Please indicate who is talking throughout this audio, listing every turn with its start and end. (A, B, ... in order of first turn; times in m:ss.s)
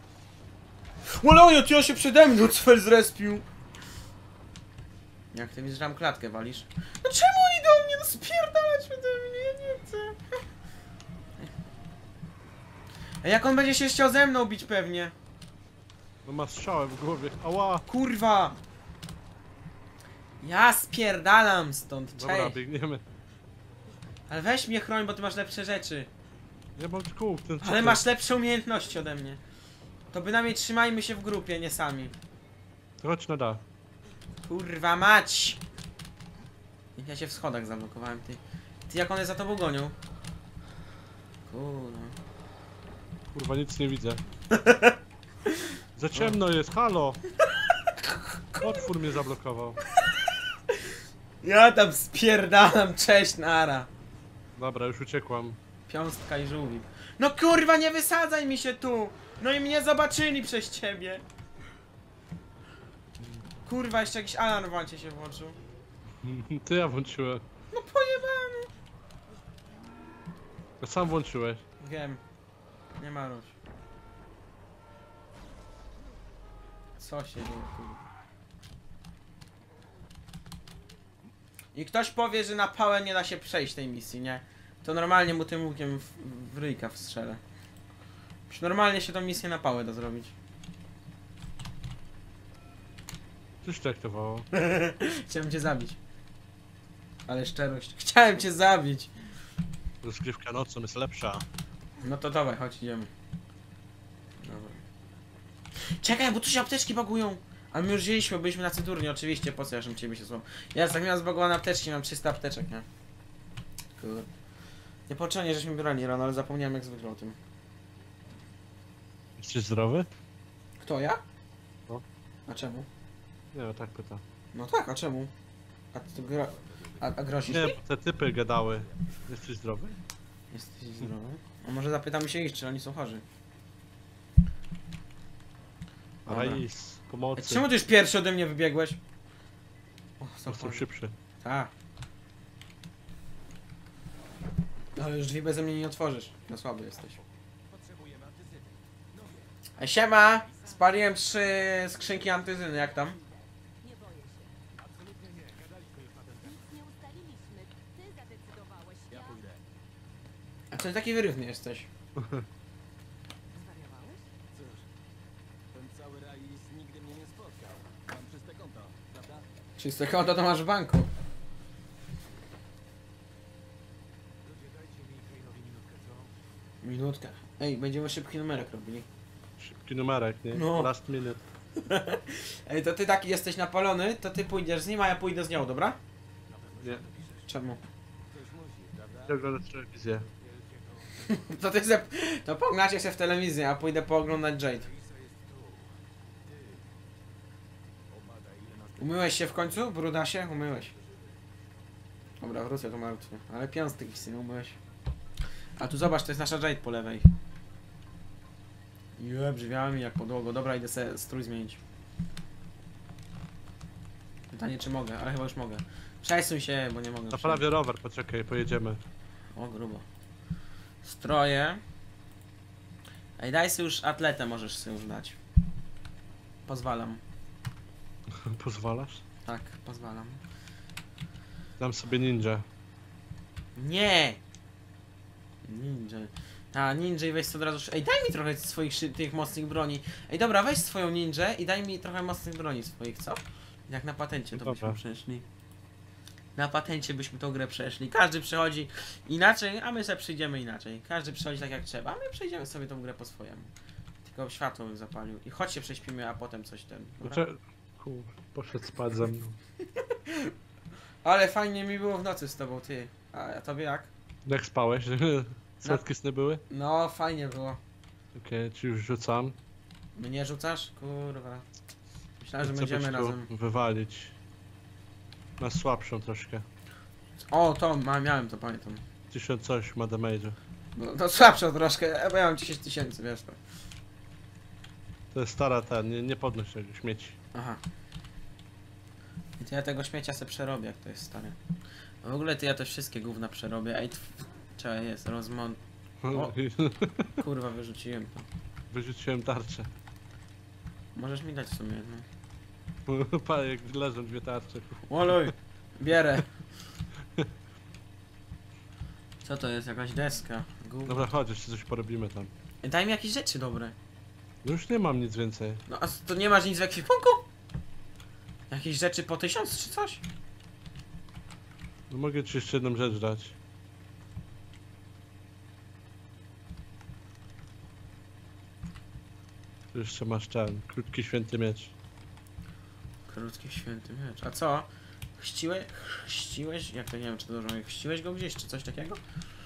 0:01.0-0:03.4 A
0:05.3-0:10.2 A
0:13.2-0:15.1 A
0:16.2-0:17.8 B
0:17.9-0:18.6 A
0:20.4-0:22.6 A
0:22.2-0:23.0 B
0:24.3-0:26.1 A
0:26.8-0:28.0 B
0:27.6-0:29.4 A
0:30.1-0:32.2 A
0:33.0-0:33.6 B
0:34.4-0:35.6 A
0:37.0-0:40.0 A
0:41.5-0:42.2 A
0:43.3-0:44.2 B
0:44.5-0:46.4 A
0:46.0-0:47.2 B
0:47.4-0:48.8 A
0:48.6-0:49.8 B
0:49.8-0:50.8 A
0:51.4-0:53.9 A
0:54.6-0:55.6 B
0:55.9-1:01.2 A
1:03.6-1:05.6 A
1:06.2-1:07.4 B
1:07.7-1:08.7 A
1:10.8-1:11.6 B
1:11.8-1:12.2 A
1:13.0-1:13.6 A
1:17.0-1:18.0 A
1:21.7-1:27.4 A
1:28.5-1:30.4 A
1:33.6-1:34.5 B
1:34.5-1:36.0 A
1:37.3-1:39.1 A
1:40.0-1:41.5 B
1:42.0-1:43.1 A
1:44.4-1:44.8 A
1:45.8-1:52.9 A
1:54.0-1:54.3 A
1:55.1-1:57.4 A
1:59.4-2:00.1 B
2:00.8-2:01.2 A
2:02.5-2:02.9 A
2:03.5-2:04.2 B
2:04.5-2:05.3 A
2:05.9-2:07.8 A
2:06.2-2:07.6 C
2:07.5-2:10.0 B
2:08.6-2:09.0 C
2:10.5-2:13.2 A
2:16.3-2:17.7 B
2:16.3-2:16.6 A
2:17.4-2:19.0 A
2:20.2-2:20.9 A
2:20.5-2:21.2 B
2:21.4-2:21.7 A
2:25.0-2:27.2 A
2:27.7-2:29.5 C
2:29.8-2:33.2 A
2:32.8-2:34.7 D
2:34.8-2:36.6 C
2:36.4-2:39.4 D
2:39.1-2:39.6 C
2:40.7-2:41.9 A
2:42.2-2:42.5 B
2:43.5-2:44.3 D
2:44.5-2:44.8 C
2:45.7-2:49.5 C
2:49.8-2:51.1 A
2:54.4-2:56.3 C
2:56.8-2:59.1 A
2:59.6-3:01.4 B
3:00.5-3:00.9 A
3:01.8-3:06.0 A
3:06.5-3:07.5 C
3:07.5-3:07.8 A
3:08.3-3:09.4 C
3:09.3-3:10.3 B
3:10.4-3:11.5 C
3:11.3-3:14.9 A
3:14.8-3:16.9 C
3:18.1-3:19.7 C
3:19.0-3:20.9 A
3:22.4-3:24.8 A
3:25.8-3:27.3 A
3:29.2-3:31.8 A
3:34.5-3:37.6 A
3:37.3-3:39.0 B
3:39.6-3:40.0 A
3:41.0-3:41.8 A
3:43.4-3:45.4 A
3:46.7-3:47.2 A
3:48.3-3:49.2 B
3:49.4-3:50.4 A
3:51.8-3:52.7 B
3:53.8-3:54.4 A
3:55.6-4:05.5 A
4:04.6-4:05.0 B
4:06.6-4:13.7 A
4:14.2-4:17.4 A
4:17.2-4:19.6 B
4:20.0-4:20.5 A
4:21.2-4:24.1 A
4:24.4-4:26.6 B
4:26.7-4:27.8 A
4:28.3-4:29.6 B
4:30.2-4:31.6 A
4:32.4-4:33.5 A
4:32.6-4:34.3 B
4:35.6-4:36.6 B
4:37.5-4:39.0 A
4:39.3-4:40.6 B
4:41.0-4:43.6 A
4:45.3-4:47.4 B
4:47.5-4:47.8 A
4:49.6-4:51.6 A
4:52.2-4:55.8 A
4:56.2-4:57.3 B
4:56.3-4:56.6 A
4:57.4-4:58.5 A
4:58.9-4:59.9 B
5:01.2-5:02.3 A
5:03.1-5:05.5 B
5:05.1-5:06.5 A
5:09.4-5:11.3 A
5:11.1-5:12.5 B
5:12.8-5:14.0 A
5:14.6-5:15.8 B
5:15.9-5:17.4 A
5:18.7-5:20.2 A
5:22.1-5:23.6 B
5:29.9-5:31.9 B
5:33.3-5:39.2 A